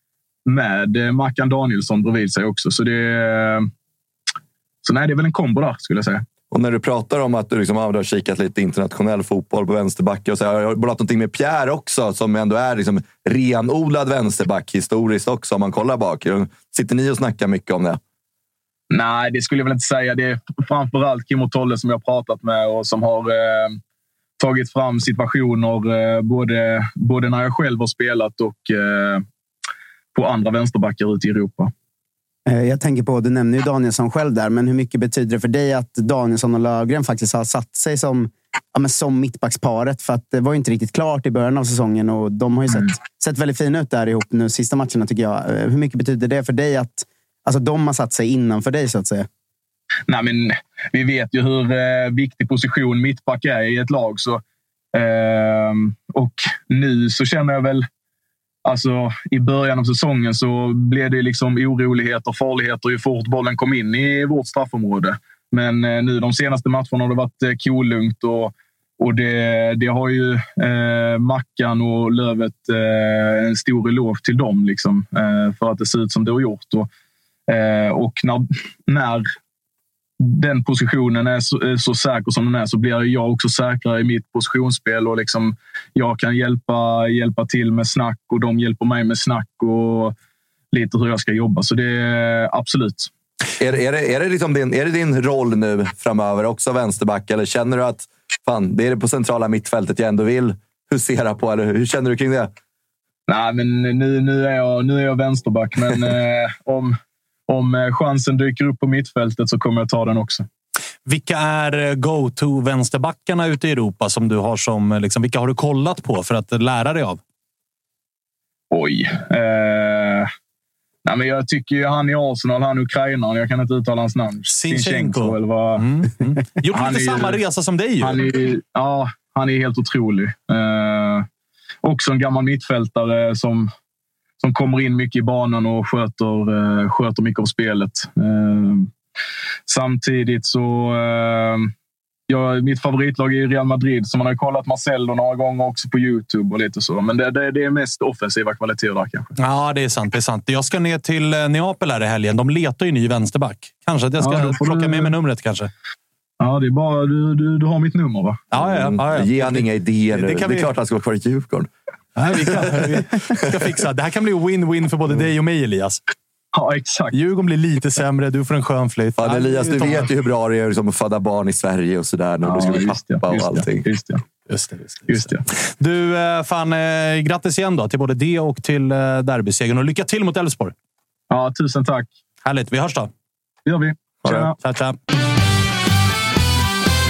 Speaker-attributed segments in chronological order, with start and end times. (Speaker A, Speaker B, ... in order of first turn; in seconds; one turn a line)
Speaker A: 0.5-3.7
Speaker A: 4.8-6.2
Speaker B: 6.5-18.0
Speaker A: 18.9-23.8
Speaker A: 24.4-29.2
Speaker A: 30.1-31.7
Speaker C: 32.5-49.3
Speaker A: 50.1-54.4
Speaker A: 54.9-57.9
Speaker A: 58.6-76.9
Speaker A: 77.5-79.2
Speaker A: 80.2-90.1
Speaker A: 90.7-93.1
Speaker B: 93.6-102.5
Speaker A: 103.3-107.0
Speaker A: 107.5-110.5
Speaker D: 111.0-117.2
Speaker A: 118.7-120.3
Speaker A: 121.0-125.8
Speaker D: 124.5-128.2
Speaker A: 126.7-127.4
Speaker A: 128.0-131.3
Speaker A: 131.8-133.7
Speaker A: 134.4-138.9
Speaker A: 139.7-141.7
Speaker A: 142.3-149.3
Speaker D: 149.4-155.7
Speaker A: 154.2-155.1
Speaker A: 156.4-158.4
Speaker D: 158.5-160.7
Speaker B: 158.6-161.7
Speaker D: 162.2-166.0
Speaker A: 166.5-167.1
Speaker D: 167.1-170.1
Speaker B: 169.2-173.9
Speaker A: 172.4-174.2
Speaker D: 174.5-180.7
Speaker A: 175.1-175.4
Speaker A: 181.3-182.1
Speaker D: 182.4-183.1
Speaker A: 183.7-184.6
Speaker D: 184.3-185.0